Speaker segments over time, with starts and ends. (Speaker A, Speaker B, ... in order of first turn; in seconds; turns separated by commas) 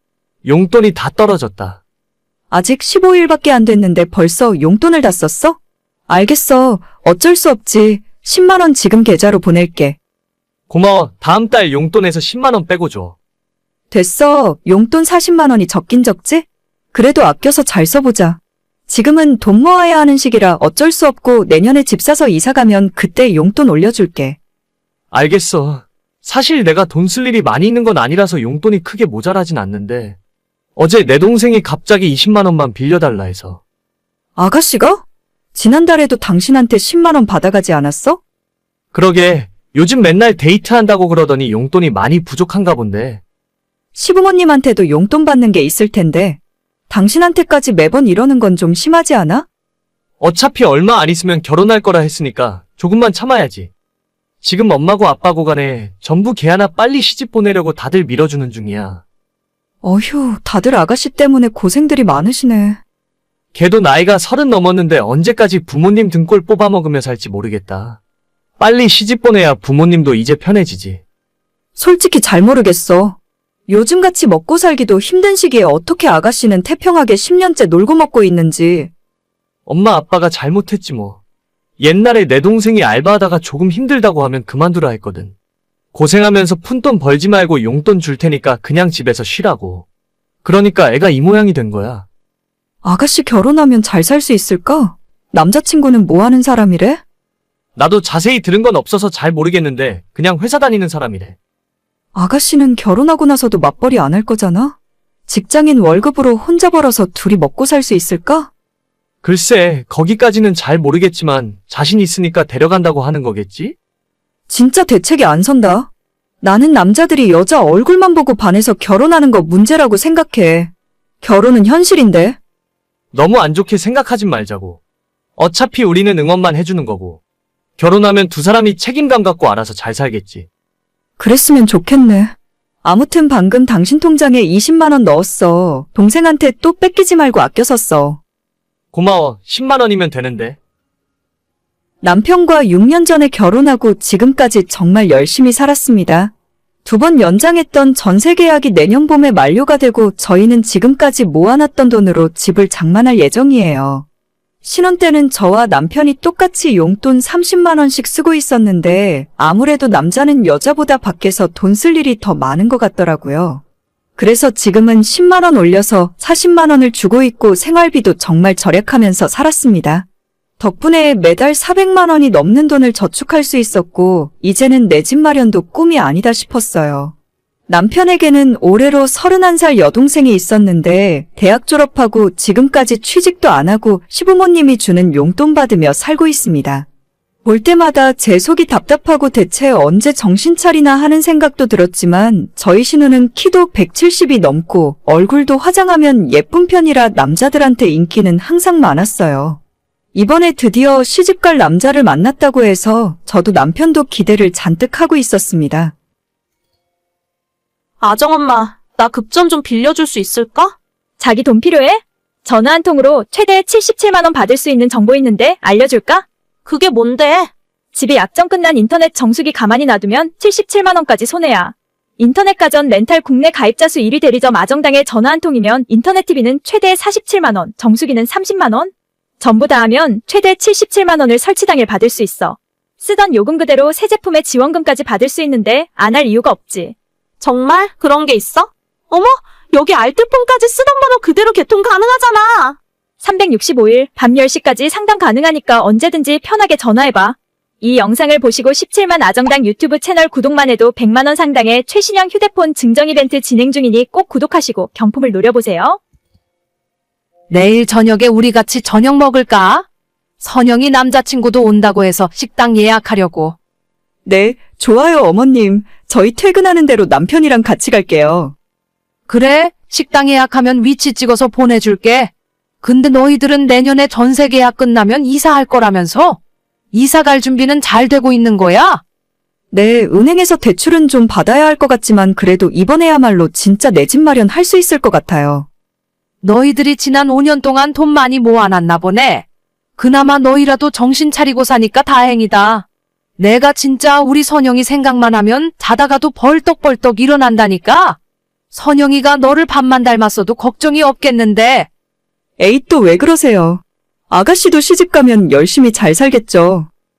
Speaker A: 0.4-1.8, Speaker B: 2.5-10.0, Speaker A: 10.7-13.2, Speaker B: 13.9-24.4, Speaker A: 25.1-30.2, Speaker A: 30.8-33.6, Speaker B: 34.4-38.2, Speaker A: 38.9-43.2, Speaker B: 43.9-49.5, Speaker A: 50.2-53.7, Speaker A: 54.4-59.0, Speaker B: 59.8-62.8, Speaker A: 63.5-68.0, Speaker A: 68.6-71.0, Speaker B: 71.8-78.9, Speaker A: 79.7-81.2, Speaker A: 81.8-85.3, Speaker A: 85.9-89.8, Speaker A: 90.4-92.1, Speaker B: 92.8-97.0, Speaker A: 97.8-101.3, Speaker B: 102.1-104.7, Speaker B: 105.3-108.5, Speaker A: 109.2-113.8, Speaker B: 114.5-115.9, Speaker B: 116.4-120.7, Speaker B: 121.2-122.4, Speaker A: 123.1-124.8, Speaker A: 125.4-127.2, Speaker A: 127.8-130.5, Speaker B: 131.2-138.2, Speaker A: 138.9-140.6, Speaker B: 142.0-146.3, Speaker B: 146.8-154.0, Speaker B: 154.6-163.6, Speaker B: 164.2-170.1, Speaker B: 170.6-177.1, Speaker B: 177.7-186.8, Speaker B: 187.4-199.6, Speaker B: 200.1-205.9, Speaker C: 208.0-210.7, Speaker D: 211.2-216.2, Speaker C: 216.7-217.5, Speaker D: 217.9-236.9, Speaker C: 237.4-242.8, Speaker D: 243.2-256.0, Speaker E: 257.5-259.8, Speaker E: 260.4-263.5, Speaker B: 264.2-268.5, Speaker E: 269.3-272.3, Speaker E: 272.8-276.4, Speaker E: 276.9-279.0, Speaker B: 279.7-285.7, Speaker E: 286.4-289.4, Speaker E: 290.0-292.8, Speaker E: 293.4-298.2, Speaker E: 298.7-301.9, Speaker B: 302.6-306.9